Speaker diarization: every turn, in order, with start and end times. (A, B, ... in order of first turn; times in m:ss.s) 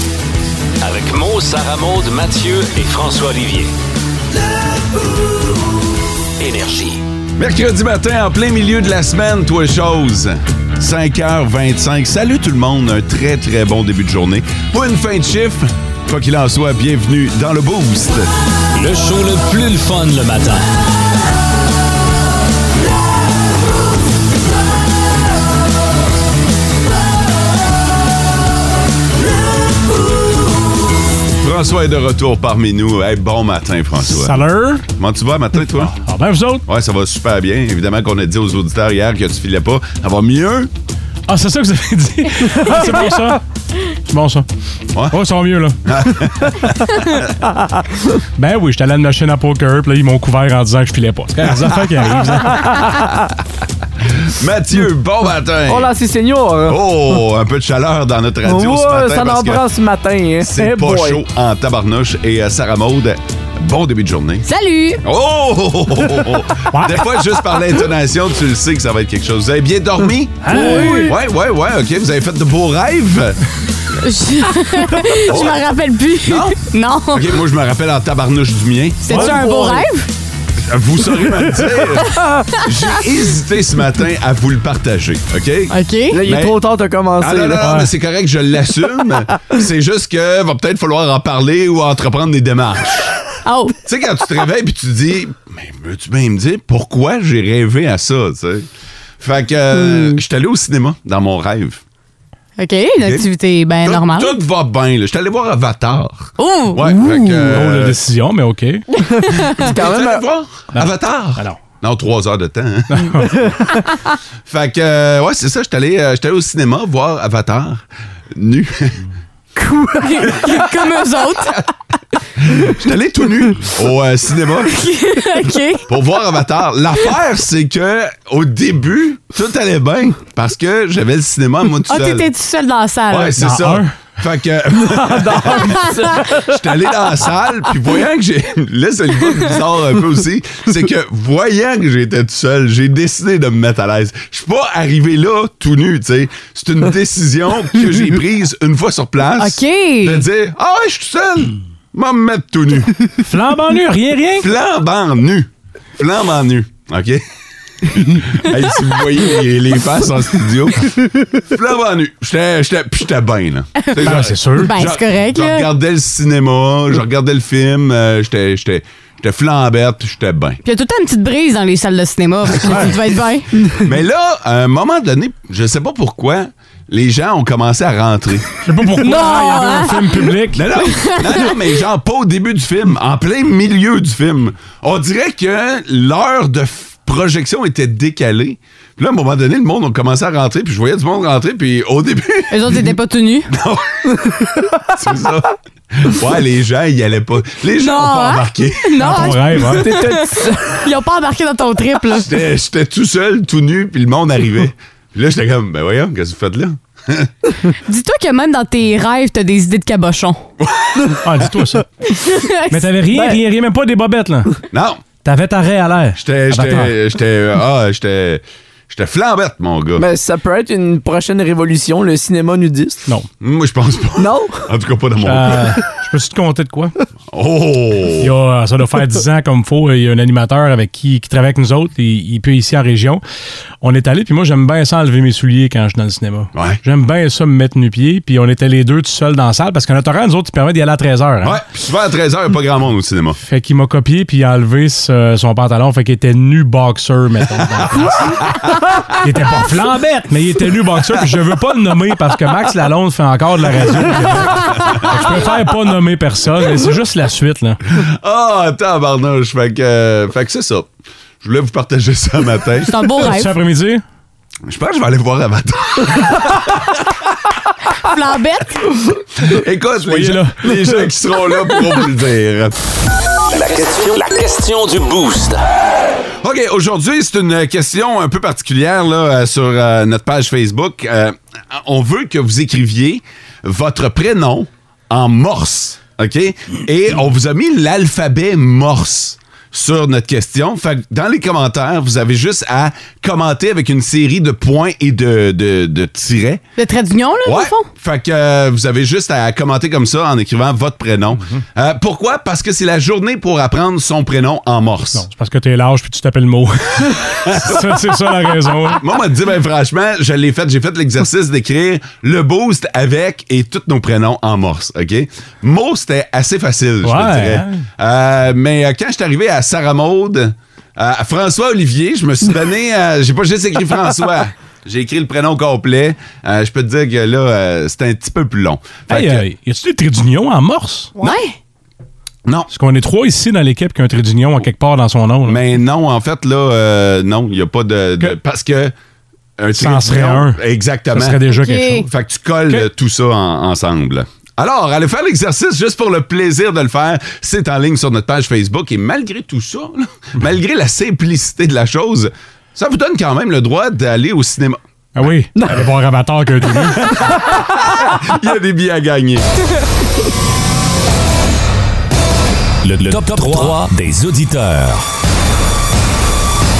0:00.8-0:03.7 A
0:06.4-0:07.0 A
0:07.4-0:18.3 B
0:18.8-0:20.6 A
0:31.4-0:34.4 B
0:34.1-0:34.8 C
0:34.9-0:35.9 B
0:35.8-0:36.6 C
0:36.6-0:40.7 B
0:41.3-0:43.4 C
0:44.1-0:44.4 C
0:45.1-0:45.8 C
0:45.8-0:47.2 B
0:48.4-0:53.0 C
0:54.2-0:55.9 B
0:55.7-0:56.8 D
0:56.7-0:59.6 B
0:58.4-1:01.2 D
1:00.4-1:04.5 B
1:04.5-1:05.0 E
1:05.0-1:13.4 B
1:06.7-1:07.0 C
1:10.4-1:11.1 C
1:10.5-1:11.1 D
1:14.0-1:17.3 E
1:15.2-1:15.6 B
1:16.2-1:16.6 B
1:17.1-1:19.4 B
1:19.0-1:20.1 E
1:19.2-1:19.9 D
1:20.6-1:25.7 B
1:25.7-1:26.2 E
1:26.1-1:27.8 D
1:26.2-1:26.6 B
1:27.2-1:33.1 B
1:27.6-1:27.9 C
1:33.4-1:33.8 E
1:33.8-1:38.7 B
1:39.2-1:41.8 B
1:42.6-1:44.3 E
1:43.0-1:43.3 B
1:43.8-1:48.0 B
1:46.4-1:47.0 E
1:47.3-1:48.8 C
1:49.0-1:50.2 D
1:49.6-1:53.4 B
1:50.7-1:51.6 C
1:52.9-1:53.4 C
1:54.4-1:59.0 B
1:59.6-2:01.6 E
2:00.3-2:00.6 B
2:02.4-2:04.7 B
2:04.7-2:05.9 E
2:05.9-2:12.3 B
2:11.9-2:13.4 E
2:13.1-2:33.1 B
2:13.4-2:14.0 C
2:14.9-2:16.5 D
2:29.4-2:30.2 E
2:33.2-2:34.5 C
2:34.4-2:37.2 B
2:37.8-2:50.6 B
2:44.0-2:44.7 C
2:44.6-2:45.7 E
2:50.6-2:53.5 E
2:53.8-2:58.5 B
2:58.6-3:00.6 C
2:59.0-3:01.6 E
3:00.5-3:12.9 B
3:12.5-3:13.5 E
3:13.5-3:19.3 B
3:17.8-3:22.3 E
3:19.0-3:19.9 C
3:19.6-3:20.7 D
3:22.1-3:27.3 B
3:27.8-3:30.4 E
3:30.6-3:31.5 B
3:31.2-3:31.8 C
3:32.1-3:32.9 E
3:32.7-3:34.5 C
3:33.1-3:33.4 D
3:34.7-3:35.0 B
3:35.2-3:36.9 C
3:36.2-3:40.0 B
3:40.0-3:43.1 D
3:43.4-3:45.8 B
3:44.2-3:44.6 D
3:45.2-3:46.9 C
3:47.3-3:48.3 B
3:48.2-3:53.2 C
3:53.8-4:01.6 C
3:56.5-3:56.8 B
4:01.4-4:03.4 B
4:03.4-4:17.8 C
4:18.0-4:20.9 B
4:21.4-4:22.9 B
4:22.9-4:23.5 E
4:23.2-4:24.0 C
4:24.6-4:26.9 B
4:28.0-4:28.8 E
4:29.5-4:32.8 B
4:30.0-4:31.1 C
4:33.5-4:35.6 A
4:36.4-4:56.6 B
4:56.8-4:57.9 E
4:57.4-5:05.2 B
5:05.1-5:09.0 C
5:07.4-5:07.9 B
5:09.0-5:29.4 B
5:17.0-5:17.8 C
5:29.1-5:31.1 C
5:31.2-5:31.6 E
5:32.7-5:35.6 C
5:35.4-5:38.9 B
5:39.6-5:41.4 B
5:39.7-5:40.6 C
5:41.1-5:42.1 C
5:41.5-5:42.0 E
5:42.0-5:54.8 B
5:55.2-5:57.3 C
5:55.5-5:55.8 D
5:57.1-5:57.6 D
5:58.2-5:59.5 B
6:02.8-6:05.0 A